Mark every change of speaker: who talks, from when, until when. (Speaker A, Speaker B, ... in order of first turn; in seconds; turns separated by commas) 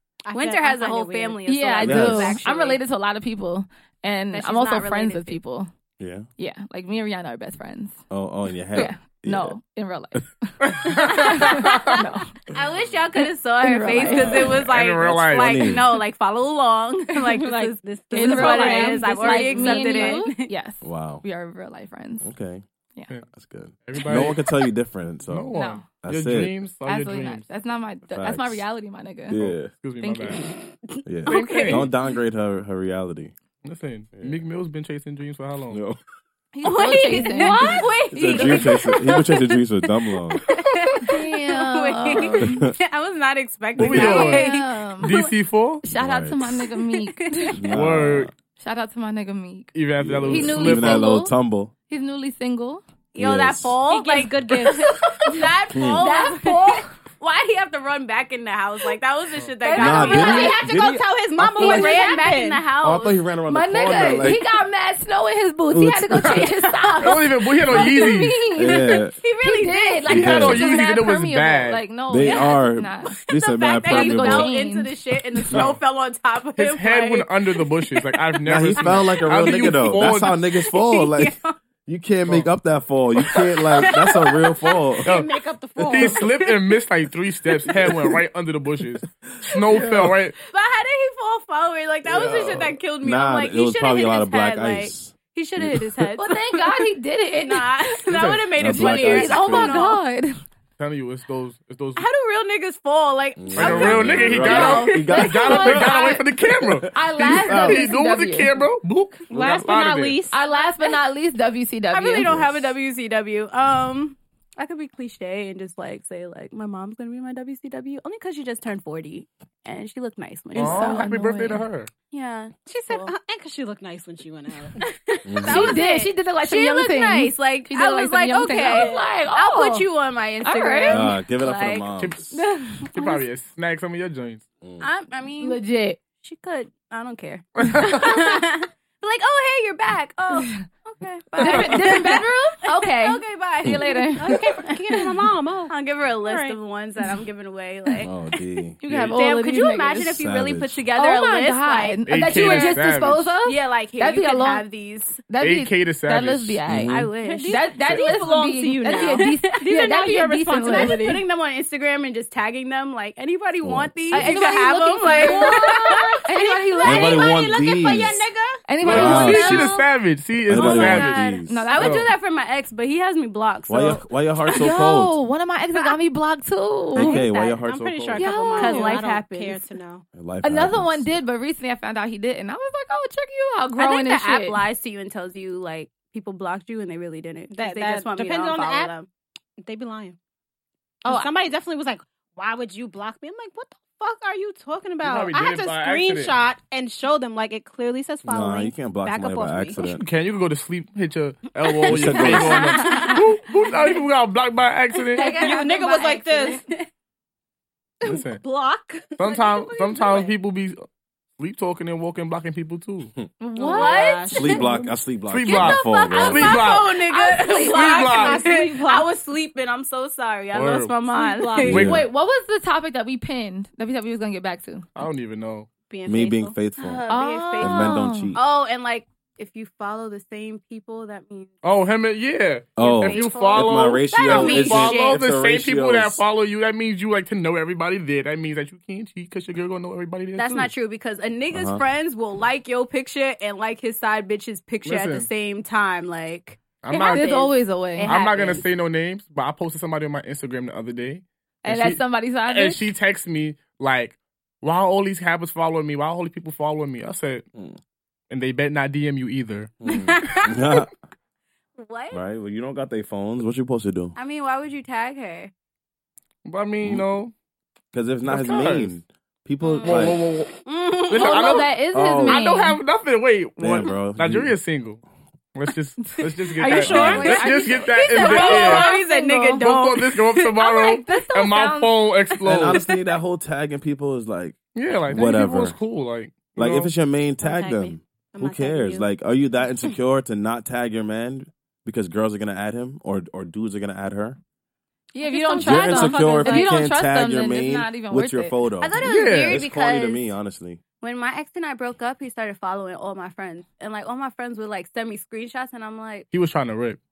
Speaker A: 0.3-1.4, Speaker B: 0.3-2.8, Speaker C: 1.5-5.7, Speaker D: 1.8-2.4, Speaker B: 4.3-5.4, Speaker D: 6.0-6.3, Speaker C: 6.4-8.0, Speaker D: 8.1-9.6, Speaker C: 8.7-12.3, Speaker E: 10.6-12.0, Speaker B: 12.5-20.5, Speaker C: 13.2-14.6, Speaker D: 14.0-15.9, Speaker E: 14.5-15.8, Speaker A: 17.3-20.2, Speaker C: 18.1-22.3, Speaker D: 20.8-21.2, Speaker D: 22.2-22.6, Speaker D: 23.3-26.5, Speaker E: 23.9-24.4, Speaker E: 25.3-27.5, Speaker C: 25.5-25.9, Speaker C: 26.9-29.5, Speaker D: 28.1-28.6, Speaker D: 29.3-29.7, Speaker E: 29.4-30.5, Speaker C: 30.0-30.4, Speaker D: 31.1-33.3, Speaker E: 31.2-31.9, Speaker B: 31.3-31.9, Speaker E: 33.6-35.8, Speaker D: 34.2-34.4, Speaker D: 35.7-36.0, Speaker C: 36.5-38.7, Speaker B: 36.6-39.6, Speaker D: 38.1-40.4, Speaker B: 40.4-45.3, Speaker C: 41.0-42.7, Speaker D: 42.4-42.7, Speaker E: 43.8-45.8, Speaker C: 43.9-45.2, Speaker C: 45.8-47.6, Speaker D: 45.9-46.5, Speaker B: 46.8-47.6, Speaker D: 47.6-48.3, Speaker E: 47.7-48.3, Speaker C: 48.6-49.7, Speaker E: 49.7-51.1, Speaker D: 50.0-51.7, Speaker C: 50.3-51.3, Speaker C: 51.9-52.8, Speaker B: 53.1-60.6, Speaker D: 53.2-53.8, Speaker A: 53.9-55.5, Speaker C: 55.2-55.5, Speaker D: 55.7-56.0, Speaker C: 56.0-56.9, Speaker C: 59.6-60.7, Speaker D: 59.8-61.8, Speaker A: 60.1-62.6, Speaker B: 61.5-63.2, Speaker C: 61.6-62.0, Speaker D: 62.8-64.4, Speaker C: 63.5-73.1, Speaker D: 65.7-66.6, Speaker E: 67.0-68.5, Speaker D: 68.5-69.2, Speaker B: 68.6-70.2, Speaker E: 70.1-71.8, Speaker D: 70.1-70.7, Speaker D: 72.1-74.5, Speaker B: 72.2-72.5, Speaker B: 73.2-78.1, Speaker C: 73.8-75.0, Speaker D: 75.5-75.8, Speaker E: 76.6-80.4, Speaker D: 78.5-85.1, Speaker B: 78.8-79.8, Speaker B: 80.5-81.5, Speaker B: 83.3-85.0, Speaker A: 85.0-86.3, Speaker E: 85.0-85.3, Speaker E: 85.8-90.4, Speaker B: 86.0-86.8, Speaker D: 89.7-90.2, Speaker B: 90.5-96.9, Speaker D: 92.0-95.9, Speaker C: 96.2-100.4, Speaker B: 97.5-100.0, Speaker E: 98.1-98.5, Speaker D: 98.5-99.9, Speaker E: 100.8-102.0, Speaker B: 102.0-105.9, Speaker D: 103.4-107.8, Speaker E: 103.5-110.2, Speaker C: 104.4-106.2, Speaker C: 106.9-108.6, Speaker A: 109.3-110.3, Speaker C: 110.3-112.3, Speaker B: 111.9-121.1, Speaker D: 112.2-112.8, Speaker C: 120.5-121.7, Speaker E: 120.5-121.9, Speaker B: 122.1-123.1, Speaker A: 122.7-124.8, Speaker B: 124.8-131.9, Speaker D: 125.3-125.8, Speaker C: 125.4-129.9, Speaker A: 128.6-129.1, Speaker C: 130.4-131.1, Speaker D: 130.9-132.3, Speaker E: 132.0-134.5, Speaker C: 132.3-133.2, Speaker B: 134.8-135.6, Speaker C: 135.4-136.0, Speaker B: 136.2-142.3, Speaker E: 137.6-138.1, Speaker C: 137.8-138.1, Speaker C: 140.3-140.6, Speaker E: 141.4-141.9, Speaker C: 141.4-144.9, Speaker B: 142.8-144.8, Speaker A: 144.2-146.6, Speaker B: 145.7-148.1, Speaker D: 148.0-149.1, Speaker C: 148.8-150.0, Speaker B: 149.1-152.8, Speaker D: 149.9-150.8, Speaker C: 151.0-154.7, Speaker E: 152.1-153.3, Speaker B: 153.4-155.3, Speaker C: 155.3-161.2, Speaker E: 155.4-156.7, Speaker D: 156.7-157.1, Speaker B: 156.8-157.6, Speaker A: 157.2-161.2, Speaker B: 158.9-159.5, Speaker B: 160.6-166.2, Speaker D: 163.6-164.2, Speaker C: 164.1-167.3, Speaker A: 164.2-168.7, Speaker D: 166.8-168.2, Speaker C: 168.7-169.9, Speaker E: 168.8-171.2, Speaker D: 168.8-169.7, Speaker B: 169.2-169.5, Speaker D: 170.4-171.7, Speaker B: 170.5-174.6, Speaker C: 170.6-172.1, Speaker E: 171.8-172.1, Speaker D: 173.7-175.2, Speaker C: 174.5-177.2, Speaker B: 176.9-177.7, Speaker D: 177.0-178.2, Speaker A: 177.6-180.1, Speaker C: 178.2-179.0, Speaker B: 178.5-179.7, Speaker D: 180.1-181.2, Speaker C: 180.4-184.7, Speaker B: 183.8-189.1, Speaker A: 187.5-188.9, Speaker A: 189.6-190.2, Speaker C: 191.1-191.3, Speaker A: 191.1-199.8, Speaker E: 195.0-196.4, Speaker D: 198.3-200.0, Speaker E: 199.8-205.4, Speaker D: 201.9-202.9, Speaker B: 202.3-203.2, Speaker C: 205.2-206.6, Speaker B: 205.2-205.5, Speaker A: 205.2-206.6, Speaker B: 206.5-206.9, Speaker E: 208.0-208.4, Speaker A: 208.0-210.4, Speaker E: 209.2-210.9, Speaker E: 211.4-213.1, Speaker C: 213.4-214.3, Speaker A: 213.6-214.9, Speaker B: 213.6-214.7, Speaker D: 214.3-216.6, Speaker E: 215.3-217.0, Speaker B: 215.5-221.9, Speaker C: 217.1-218.5, Speaker A: 217.5-219.1, Speaker E: 217.6-218.4, Speaker E: 220.5-220.9, Speaker A: 221.1-221.8, Speaker D: 221.6-222.1, Speaker E: 221.7-222.0, Speaker C: 221.8-224.9, Speaker E: 224.9-225.7, Speaker A: 225.9-226.6, Speaker D: 226.1-227.0, Speaker B: 226.8-231.6, Speaker C: 227.1-228.3, Speaker D: 227.6-228.4, Speaker E: 231.6-240.7, Speaker D: 232.8-236.2, Speaker B: 233.0-235.2, Speaker B: 240.4-248.6, Speaker D: 241.5-241.8, Speaker E: 244.8-245.3, Speaker E: 246.8-247.3, Speaker C: 247.0-248.2, Speaker E: 248.1-257.5, Speaker C: 251.6-252.9, Speaker E: 258.3-259.7, Speaker D: 259.8-260.9, Speaker B: 259.9-260.6, Speaker B: 261.8-262.2, Speaker D: 262.1-264.1, Speaker B: 264.1-265.5, Speaker E: 266.4-267.3, Speaker D: 267.9-270.2, Speaker E: 268.2-268.9, Speaker B: 269.6-270.1, Speaker E: 269.8-270.5, Speaker B: 270.6-271.7, Speaker E: 271.1-275.0, Speaker C: 271.1-272.8, Speaker D: 271.9-272.4, Speaker D: 273.6-274.5, Speaker E: 275.6-278.9, Speaker C: 276.6-279.6, Speaker A: 276.7-277.6, Speaker B: 276.8-280.7, Speaker E: 279.6-282.8, Speaker C: 280.6-282.0, Speaker D: 282.4-285.8, Speaker E: 284.7-286.9, Speaker D: 286.6-294.4, Speaker A: 287.4-289.1, Speaker C: 295.1-298.6, Speaker A: 295.2-296.7, Speaker D: 295.6-300.8, Speaker B: 298.8-300.2, Speaker E: 299.0-299.6, Speaker B: 301.0-306.3, Speaker E: 306.3-307.0